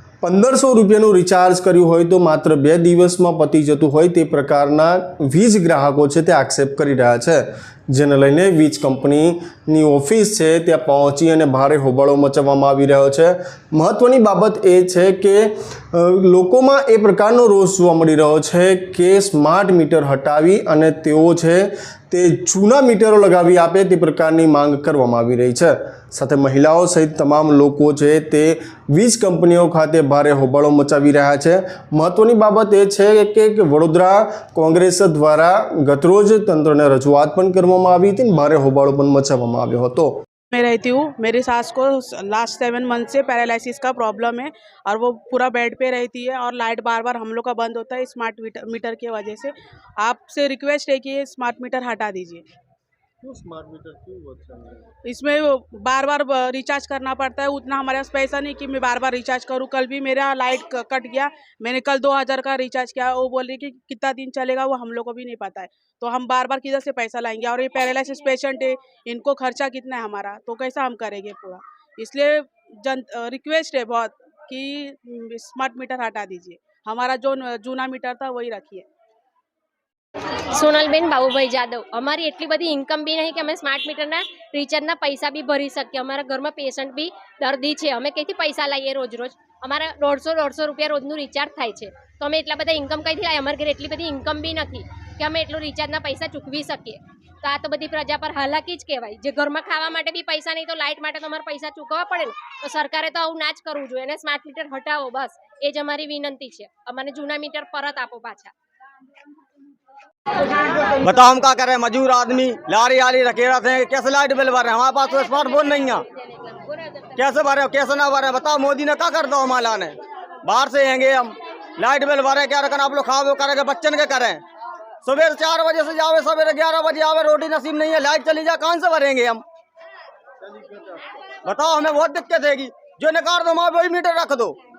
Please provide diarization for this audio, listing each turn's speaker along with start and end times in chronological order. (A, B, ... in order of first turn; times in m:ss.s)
0:00.2-0:40.1 A
0:40.5-0:52.4 B
0:53.2-0:54.8 A
0:55.0-1:18.9 B
1:20.5-1:48.5 C
1:50.9-1:56.0 D
1:57.1-2:04.4 D
2:05.0-2:09.4 D
2:10.6-2:14.5 D